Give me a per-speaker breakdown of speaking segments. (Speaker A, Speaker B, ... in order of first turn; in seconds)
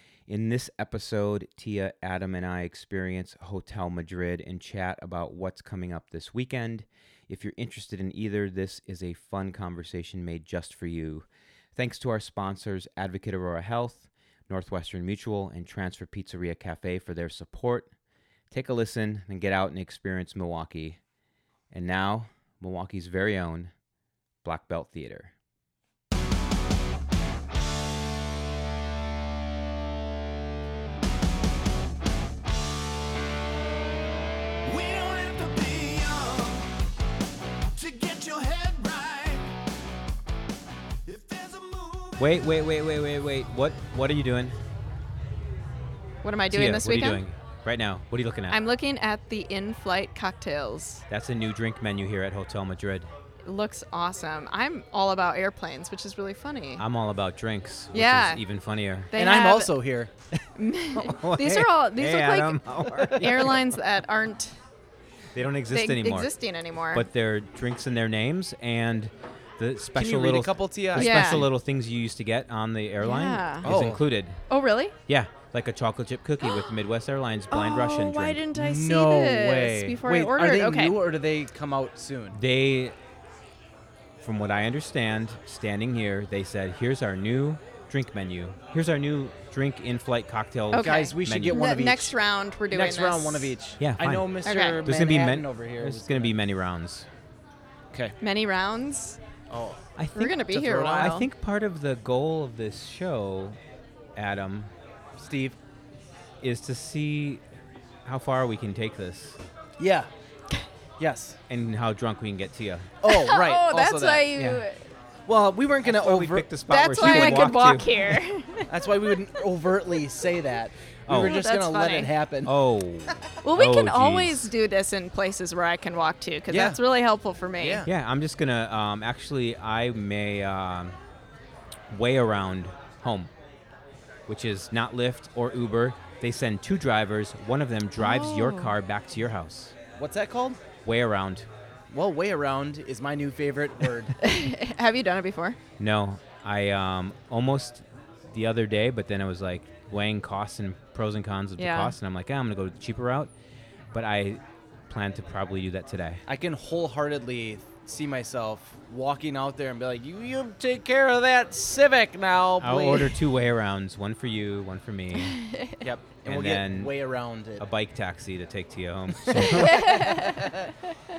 Speaker A: 0.3-17.9, 18.5-21.0, 21.7-23.7, 24.4-25.3, 42.2-44.6, 46.5-48.6, 51.1-53.1, 56.8-59.1, 60.9-63.6, 65.3-66.3, 66.9-74.4, 75.1-78.4, 82.3-83.0, 84.2-91.6, 93.8-97.1, 100.0-100.4, 101.0-103.6, 104.2-104.7, 106.4-107.4, 108.1-109.4, 111.5-112.9, 114.4-114.6, 115.8-117.9, 121.1-121.4, 122.5-124.5, 127.8-131.0, 131.9-133.3, 134.3-139.8, 140.8-141.5, 145.8-153.3, 153.9-156.2, 162.6-165.4, 166.2-166.9, 167.6-170.2
Speaker B: 34.7-36.7, 37.8-39.5, 41.1-42.1
Speaker C: 46.2-47.2, 48.5-51.0, 53.4-56.9, 57.9-58.4, 59.1-59.8, 60.6-64.5, 65.7-67.1, 71.0-71.5, 73.0-73.7, 74.5-75.0, 76.4-76.7, 77.5-81.0, 90.7-93.5, 94.5-94.9, 98.2-99.2, 100.2-101.3, 113.1-114.9, 116.7-119.4, 121.1-122.1, 123.4-127.9, 138.0-138.8, 144.2-145.6, 151.6-151.9, 165.2-165.8, 169.3-170.7
Speaker D: 59.1-60.1, 63.1-63.5, 70.0-71.5, 73.6-74.0, 78.5-82.4, 90.8-92.2, 92.7-96.3, 99.5-99.8, 100.5-101.2, 105.2-105.6, 109.8-110.1, 111.0-111.4, 113.0-114.3, 115.3-117.6, 118.7-122.5, 126.5-126.8, 127.6-127.9, 140.0-140.6, 141.9-144.2, 156.3-163.2, 165.8-167.7, 169.2-170.7